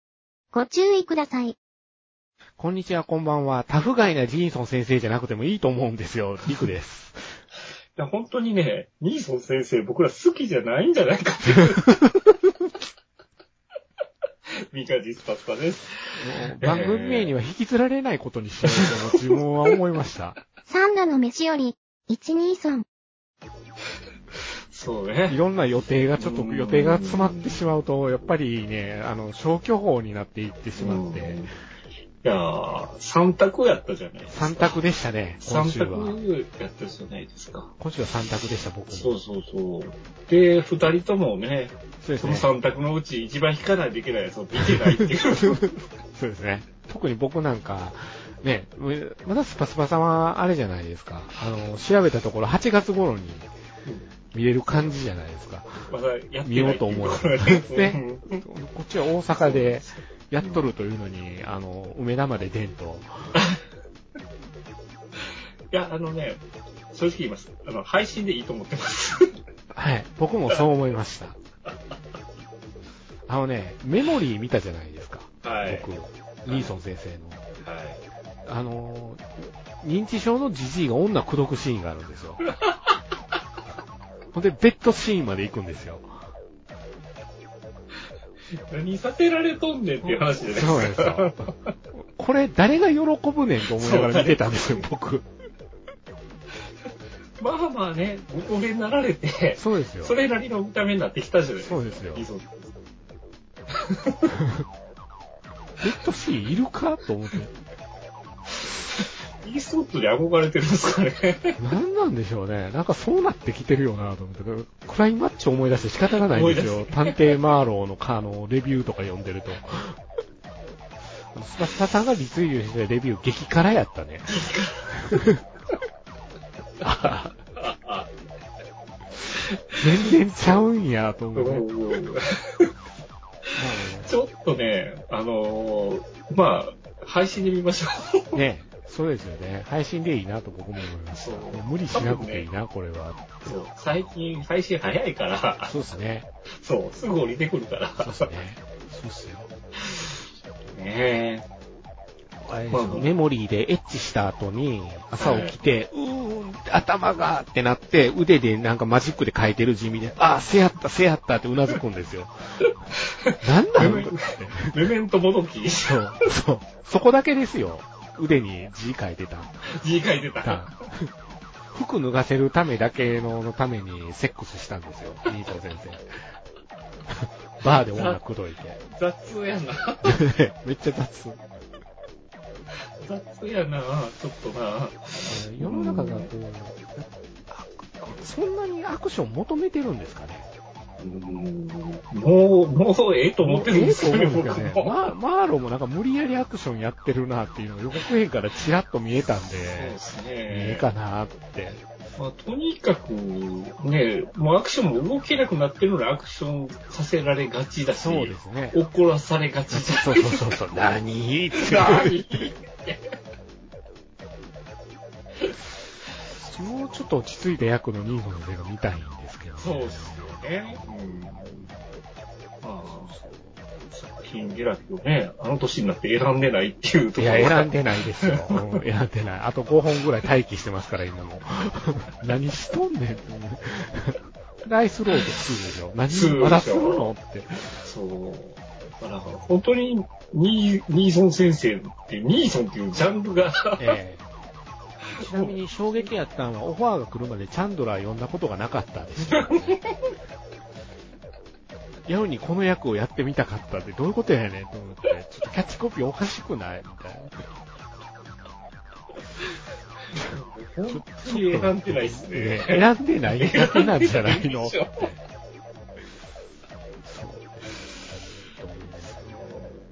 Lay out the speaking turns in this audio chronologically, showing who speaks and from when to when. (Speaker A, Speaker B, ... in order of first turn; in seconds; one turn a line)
Speaker A: 0.5-1.6
Speaker B: 2.6-7.4
Speaker C: 8.0-12.0
Speaker C: 14.7-17.3
Speaker B: 16.2-20.4
Speaker C: 18.7-19.4
Speaker A: 20.7-22.9
Speaker C: 24.7-25.4
Speaker B: 25.3-31.4
Speaker C: 26.2-27.6
Speaker C: 30.8-31.5
Speaker C: 32.2-34.8
Speaker B: 34.3-36.2
Speaker C: 35.4-37.7
Speaker B: 37.8-39.1
Speaker C: 38.9-45.7
Speaker B: 42.0-42.5
Speaker B: 44.6-53.5
Speaker B: 54.3-55.9
Speaker C: 55.9-58.5
Speaker B: 56.5-63.3
Speaker C: 59.3-60.6
Speaker C: 63.4-63.6
Speaker C: 65.7-66.4
Speaker C: 66.9-69.3
Speaker B: 69.7-71.4
Speaker B: 73.3-77.5
Speaker C: 75.4-75.9
Speaker C: 76.5-76.7
Speaker C: 77.6-78.0
Speaker B: 78.5-82.4
Speaker B: 84.3-86.1
Speaker C: 88.7-91.7
Speaker B: 90.0-95.3
Speaker C: 93.7-94.8
Speaker C: 97.4-102.7
Speaker B: 99.6-100.2
Speaker B: 101.6-102.3
Speaker C: 103.8-104.3
Speaker B: 104.4-104.7
Speaker B: 105.8-107.5
Speaker C: 108.9-111.6
Speaker B: 111.6-120.0
Speaker C: 116.2-117.3
Speaker B: 121.3-125.4
Speaker C: 124.3-125.1
Speaker B: 126.8-127.4
Speaker C: 127.0-128.1
Speaker C: 129.3-130.1
Speaker B: 129.8-131.7
Speaker C: 131.3-132.7
Speaker B: 133.6-134.1
Speaker C: 134.0-138.4
Speaker B: 138.3-143.6
Speaker C: 141.2-142.5
Speaker C: 143.5-145.7
Speaker B: 145.7-146.3
Speaker C: 146.6-148.3
Speaker B: 148.0-149.5
Speaker C: 150.7-151.5
Speaker B: 152.4-162.3
Speaker C: 152.7-153.1
Speaker C: 155.2-155.6
Speaker C: 163.2-166.0
Speaker B: 163.4-164.8
Speaker B: 165.8-169.6
Speaker C: 169.8-170.7
Speaker B: 170.4-171.1
Speaker B: 171.7-176.0
Speaker B: 177.1-178.8
Speaker C: 177.7-178.2
Speaker C: 178.9-180.2
Speaker B: 180.1-181.4
Speaker C: 183.0-186.3
Speaker B: 185.3-190.5
Speaker C: 191.0-195.0
Speaker B: 193.4-200.0
Speaker C: 199.7-200.8
Speaker B: 200.5-201.8
Speaker C: 202.2-210.6
Speaker B: 207.9-208.8
Speaker B: 209.7-212.4
Speaker C: 211.6-213.0
Speaker B: 216.4-220.4
Speaker C: 219.6-221.4
Speaker B: 221.3-221.8
Speaker C: 222.6-223.1
Speaker B: 222.9-223.6
Speaker C: 223.9-228.8
Speaker B: 227.2-237.8
Speaker C: 236.1-237.1
Speaker C: 237.8-243.9
Speaker B: 243.8-244.3
Speaker C: 245.1-246.1
Speaker B: 245.2-249.8
Speaker C: 249.3-250.1
Speaker B: 252.1-257.5
Speaker C: 260.2-262.9
Speaker B: 260.9-265.2
Speaker C: 263.4-265.1
Speaker B: 267.0-269.6